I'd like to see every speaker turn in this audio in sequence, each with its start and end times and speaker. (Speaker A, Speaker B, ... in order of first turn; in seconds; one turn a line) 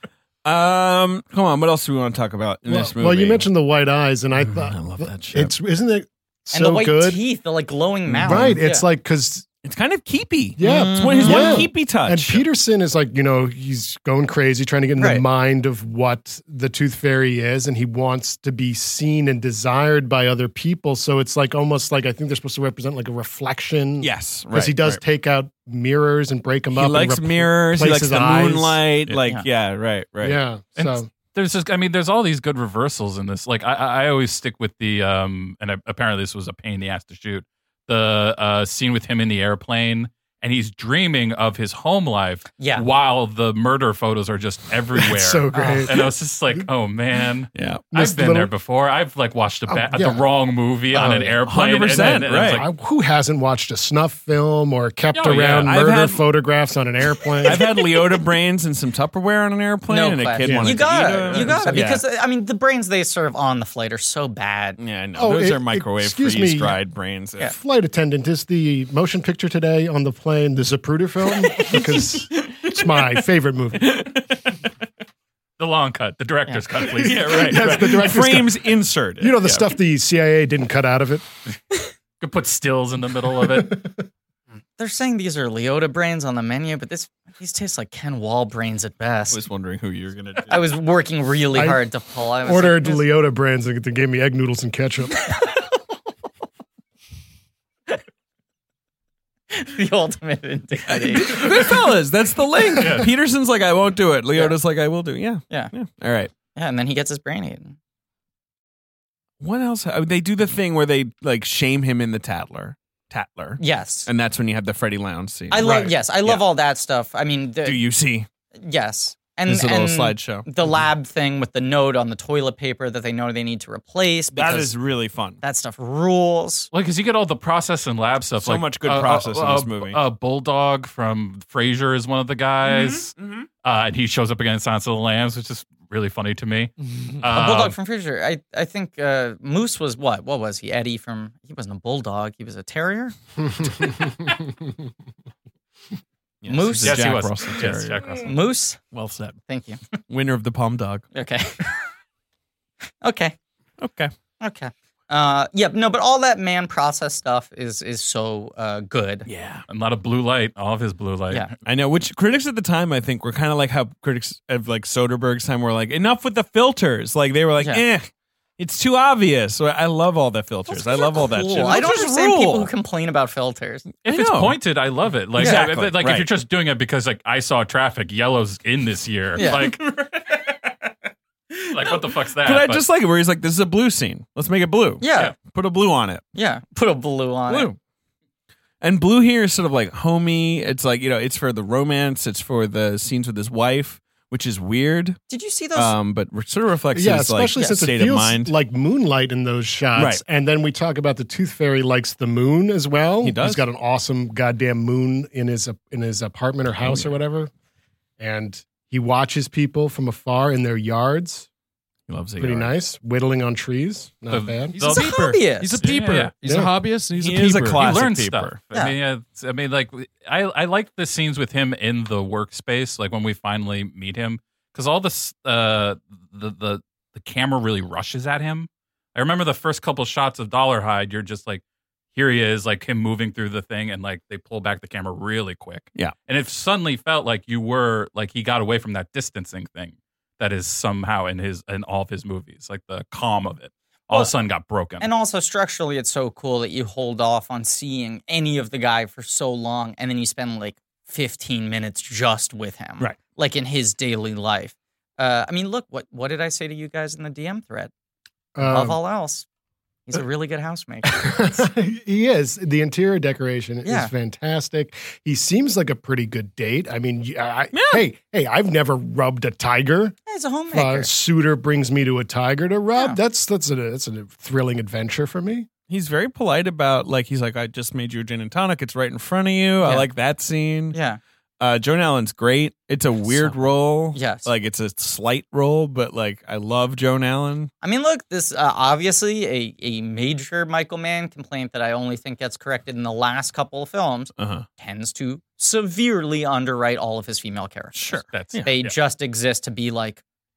Speaker A: 0.4-3.5
Speaker B: 2.7-7.2
Speaker A: 4.4-5.5
Speaker C: 6.5-8.8
Speaker A: 8.1-8.6
Speaker B: 8.2-9.5
Speaker A: 9.6-12.4
Speaker B: 10.6-28.8
Speaker C: 10.7-11.6
Speaker C: 15.0-15.2
Speaker A: 24.0-25.0
Speaker A: 26.7-30.4
Speaker B: 30.2-31.1
Speaker D: 30.8-52.7
Speaker C: 42.6-42.9
Speaker B: 45.0-46.7
Speaker C: 45.5-45.9
Speaker A: 47.5-47.9
Speaker B: 47.9-48.5
Speaker B: 49.7-50.2
Speaker B: 50.9-51.4
Speaker A: 51.5-52.7
Speaker B: 52.0-57.7
Speaker D: 55.1-55.7
Speaker A: 55.3-56.2
Speaker A: 57.4-62.0
Speaker C: 59.9-64.8
Speaker B: 60.4-61.9
Speaker A: 64.8-67.5
Speaker B: 65.2-66.8
Speaker B: 67.5-74.1
Speaker A: 71.4-73.2
Speaker A: 73.8-74.7
Speaker D: 75.6-77.8
Speaker A: 77.0-79.8
Speaker B: 77.0-81.2
Speaker D: 82.2-83.8
Speaker B: 83.4-84.0
Speaker C: 84.8-89.4
Speaker A: 89.3-90.7
Speaker C: 90.5-93.1
Speaker B: 91.5-91.8
Speaker B: 92.4-95.3
Speaker C: 99.5-101.8
Speaker A: 100.9-106.3
Speaker D: 102.8-103.1
Speaker C: 106.5-107.8
Speaker A: 109.4-116.5
Speaker C: 113.6-114.1
Speaker C: 115.5-117.8
Speaker B: 115.6-115.9
Speaker A: 117.6-118.3
Speaker C: 118.6-124.7
Speaker A: 119.5-120.5
Speaker A: 124.3-125.4
Speaker C: 125.4-126.7
Speaker D: 126.7-137.8
Speaker A: 128.4-130.0
Speaker A: 132.6-133.5
Speaker C: 137.3-143.2
Speaker B: 143.6-144.2
Speaker A: 146.4-148.2
Speaker C: 146.5-147.2
Speaker D: 146.8-148.3
Speaker C: 148.2-148.8
Speaker A: 148.9-149.4
Speaker C: 149.5-149.8
Speaker A: 150.1-151.1
Speaker C: 151.1-151.7
Speaker C: 153.0-153.4
Speaker A: 153.8-154.1
Speaker C: 154.4-159.3
Speaker A: 159.3-159.7
Speaker D: 159.7-161.6
Speaker A: 161.7-172.7
Speaker C: 167.6-167.8
Speaker C: 170.7-173.8
Speaker D: 174.1-179.8
Speaker A: 174.1-174.6
Speaker A: 175.4-176.3
Speaker C: 175.4-175.7
Speaker C: 179.4-179.7
Speaker A: 179.4-180.7
Speaker A: 181.5-186.2
Speaker D: 181.7-182.8
Speaker C: 185.0-185.3
Speaker C: 186.3-187.7
Speaker A: 187.5-187.8
Speaker A: 188.8-195.2
Speaker C: 195.3-195.9
Speaker A: 195.8-198.5
Speaker B: 196.9-207.5
Speaker A: 200.0-200.2
Speaker A: 203.2-203.7
Speaker A: 206.8-207.1
Speaker B: 208.2-211.5
Speaker A: 212.1-212.7
Speaker B: 212.4-214.8
Speaker D: 214.3-215.2
Speaker E: 214.7-217.8
Speaker C: 214.8-215.8
Speaker D: 215.8-216.3
Speaker B: 216.4-216.7
Speaker A: 217.1-218.6
Speaker D: 217.7-231.6
Speaker D: 232.1-245.1
Speaker C: 245.0-257.9
Speaker B: 258.6-259.0
Speaker C: 258.6-259.5
Speaker C: 260.1-261.6
Speaker B: 261.1-270.1
Speaker C: 263.9-264.1
Speaker A: 267.7-268.1
Speaker C: 270.3-271.1
Speaker B: 270.7-275.7
Speaker A: 275.9-281.0
Speaker C: 279.8-280.1
Speaker C: 280.9-281.2
Speaker A: 281.6-287.7
Speaker C: 283.3-283.6
Speaker C: 284.1-284.5
Speaker C: 287.8-300.2
Speaker A: 294.4-294.7
Speaker A: 297.9-298.7
Speaker D: 298.3-298.9